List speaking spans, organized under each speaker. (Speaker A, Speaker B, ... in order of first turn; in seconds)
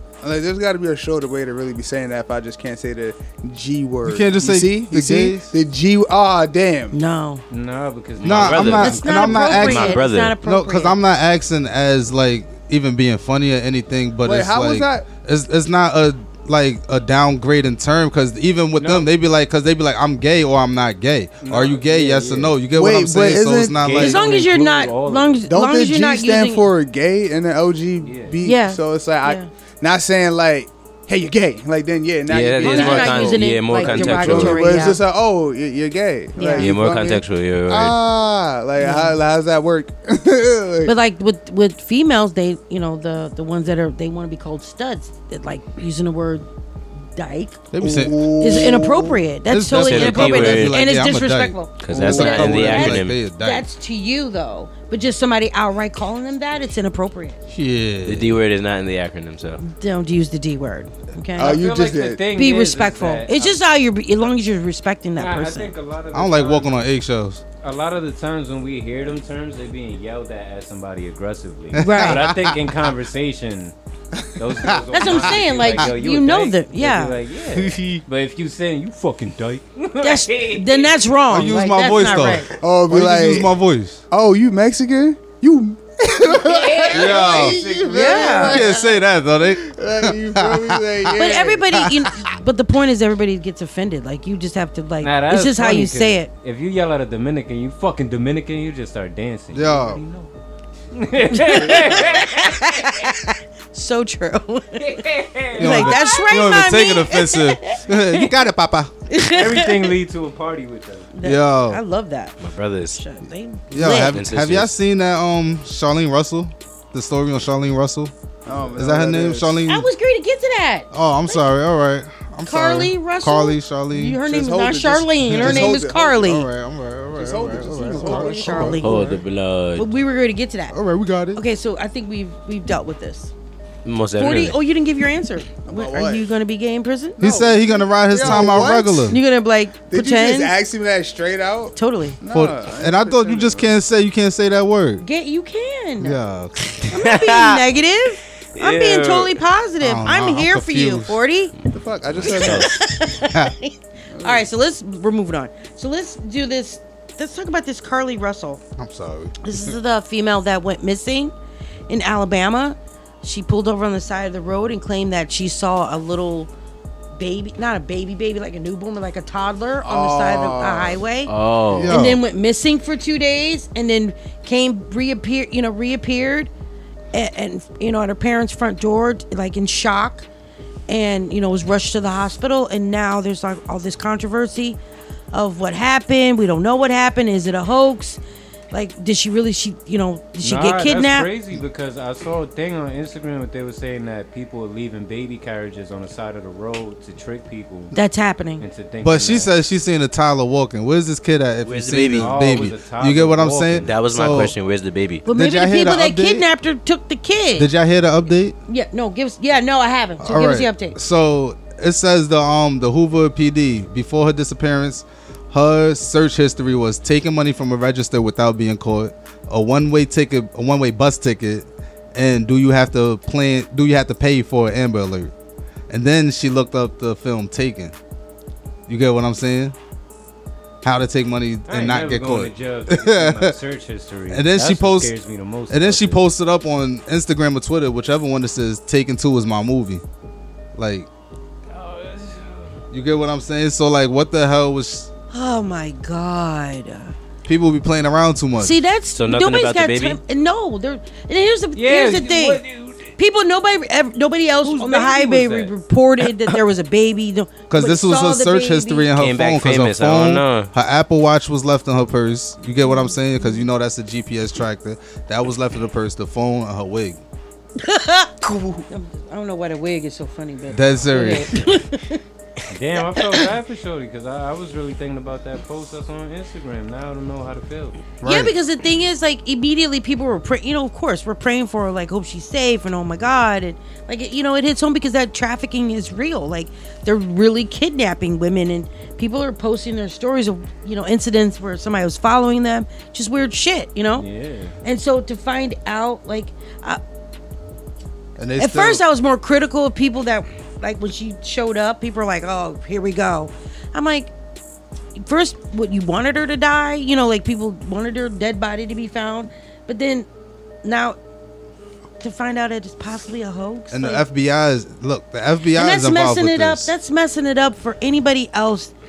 Speaker A: 0.2-7.0, 14.2-15.1, 22.7-23.9, 25.5-40.9, 47.8-49.2, 52.0-52.6, 61.4-62.2, 82.6-83.5, 84.1-88.8, 89.5-91.6, 118.5-119.6, 124.2-126.4, 127.2-128.8, 135.7-136.3, 137.2-139.2, 139.9-143.7, 151.7-152.7, 154.1-154.5, 169.8-171.0
Speaker B: 4.0-5.5, 8.2-24.2, 47.7-48.2, 49.5-53.6, 57.5-58.4, 66.1-67.4, 71.7-72.6, 77.6-78.0, 81.3-84.0, 86.9-91.2, 91.7-92.1, 99.5-100.0, 105.6-108.9, 111.2-111.8, 113.7-118.1, 118.7-119.9, 120.9-124.2, 125.2-128.9, 130.7-131.4, 137.2-139.2, 142.3-145.1, 146.0-146.6, 149.8-151.2, 158.8-159.7, 171.7-172.2, 199.0-204.5, 205.3-206.4, 207.6-208.6, 210.2-225.3, 225.9-227.9, 228.9-229.8, 230.8-233.5, 234.3-235.1, 235.7-240.0, 240.8-241.1, 242.9-245.1, 247.4-248.8, 257.7-267.2, 270.7-271.6, 278.2-278.5, 298.4-299.0, 313.9-316.9
Speaker C: 6.9-7.4, 8.8-10.9, 24.0-26.6, 28.4-29.5, 32.6-35.0, 36.4-36.7, 38.8-39.2, 40.9-46.5, 47.1-47.6, 48.4-57.4, 59.6-61.6, 62.4-65.7, 71.8-72.2, 74.9-77.2, 80.0-82.5, 87.9-89.0, 91.2-96.3, 101.3-105.0, 105.6-107.5, 109.1-109.9, 111.2-112.4, 112.9-114.2, 119.7-121.4, 122.5-126.5, 128.0-129.2, 129.8-130.8, 131.3-133.3, 134.2-137.2, 138.2-138.6, 139.1-140.5, 141.8-142.2, 145.0-146.2, 146.9-151.5, 152.2-158.6, 159.4-161.3, 161.9-166.5, 167.2-171.3, 171.9-176.5, 177.1-180.3, 180.9-184.8, 185.3-188.2, 188.7-191.3, 197.9-198.6, 205.3-207.7, 208.7-211.0, 245.3-247.1, 248.6-252.6, 253.2-259.1, 262.8-263.6, 267.8-272.2, 278.2-294.2, 294.8-297.0, 298.6-304.3, 305.2-310.3, 310.8-311.2, 312.2-314.2, 315.8-318.9
Speaker D: 7.5-9.7, 18.8-19.1, 21.4-22.6, 23.8-25.4, 28.0-28.4, 61.4-63.6, 65.2-66.8, 67.6-73.7, 74.4-81.0, 86.4-88.3, 95.0-100.3, 100.9-102.8, 104.8-106.0, 109.3-111.1, 190.4-197.9, 198.6-199.5, 202.2-203.9, 231.7-236.2, 241.7-242.7, 251.8-253.1, 254.6-255.7, 272.7-278.0, 294.2-294.7
Speaker E: 8.2-10.4, 32.3-34.8, 36.6-38.0, 49.7-50.8, 51.8-53.2, 58.1-59.6, 112.4-113.0, 114.1-114.7, 128.8-129.9, 133.8-134.6, 147.1-147.6, 148.6-149.4, 152.3-152.6, 171.3-172.0, 201.6-202.6, 203.8-205.2, 249.1-250.2, 259.2-260.7